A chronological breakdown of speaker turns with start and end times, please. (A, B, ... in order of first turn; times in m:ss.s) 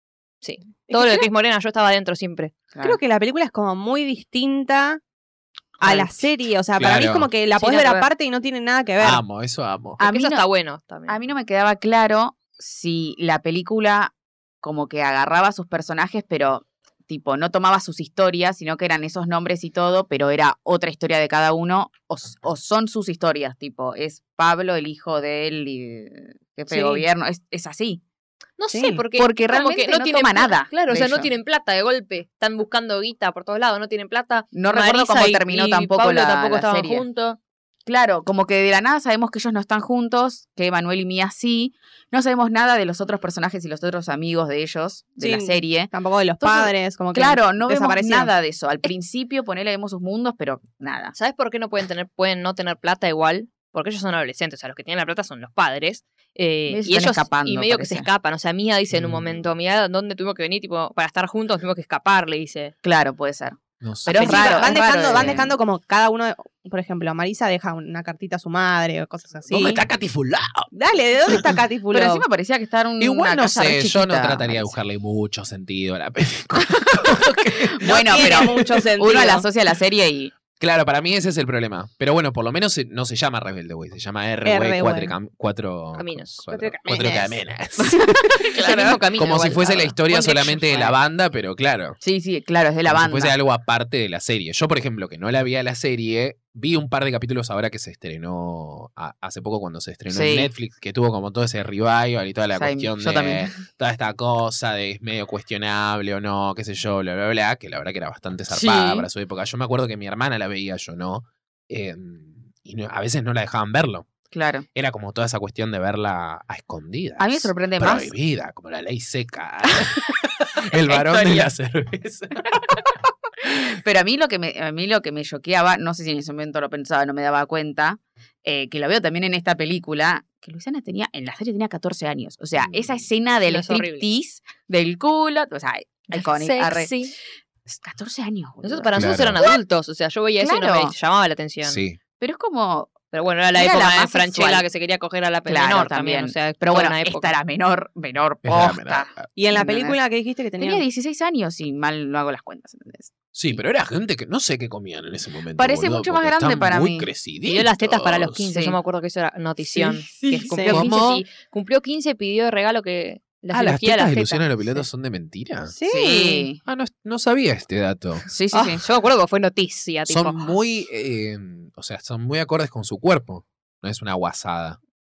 0:00.4-0:02.5 A
0:00.9-0:01.3 B
0:02.7-0:03.0 C
0:02.8-0:05.0 B
0:05.8-0:06.2 C
0:05.8-0:09.2 B
0:06.8-0:07.3 D
0:07.6-0:08.1 A
0:09.0-0:10.0 D
0:10.0-0:10.4 C
0:10.0-0:11.2 A
0:11.1-0:28.0 C
0:26.7-0:27.0 B
0:28.6-0:37.4 A
0:28.7-0:29.0 B
0:29.1-0:31.3 C
0:34.5-0:37.0 C
0:37.8-0:51.1 C
0:45.2-0:48.3 B
0:51.1-1:02.7 A
0:56.7-0:58.1 C
0:58.9-0:59.4 D
1:02.8-1:05.5 C
1:03.8-1:05.4 D
1:04.2-1:09.8 B
1:09.5-1:10.7 D
1:10.7-1:12.2 B
1:11.9-1:14.7 C
1:13.0-1:18.7 D
1:16.7-1:20.3 C
1:17.9-1:19.4 B
1:20.6-1:28.2 D
1:24.4-1:25.1 B
1:26.0-1:26.5 A
1:26.5-1:27.4 B
1:27.8-1:29.0 C
1:28.5-1:30.8 A
1:29.1-1:32.0 D
1:32.0-1:33.3 C
1:32.8-1:54.1 D
1:40.1-1:40.5 C
1:42.5-1:43.5 C
1:48.5-1:49.1 C
1:54.3-1:54.6 C
1:54.7-2:03.0 D
1:57.2-1:58.1 C
2:00.8-2:01.5 C
2:03.8-2:16.9 C
2:12.6-2:13.0 D
2:13.4-2:14.1 A
2:16.1-2:17.1 A
2:17.6-2:19.6 C
2:18.6-2:21.8 A
2:19.0-2:19.4 D
2:20.4-2:20.9 C
2:21.6-2:22.0 D
2:22.2-2:23.0 C
2:23.1-2:27.4 A
2:23.5-2:24.6 C
2:25.4-2:30.0 C
2:28.4-2:29.3 D
2:29.4-2:30.8 B
2:30.6-2:33.1 C
2:33.3-2:38.5 D
2:35.6-2:37.1 C
2:37.4-2:44.8 A
2:38.5-2:38.8 C
2:39.7-2:40.6 C
2:40.5-2:40.9 B
2:40.7-2:41.2 D
2:43.5-2:45.7 D
2:45.7-2:46.5 B
2:45.9-2:46.6 C
2:46.6-2:48.2 D
2:48.3-2:48.8 C
2:48.5-2:48.8 B
2:48.8-2:50.5 A
2:50.1-2:54.8 D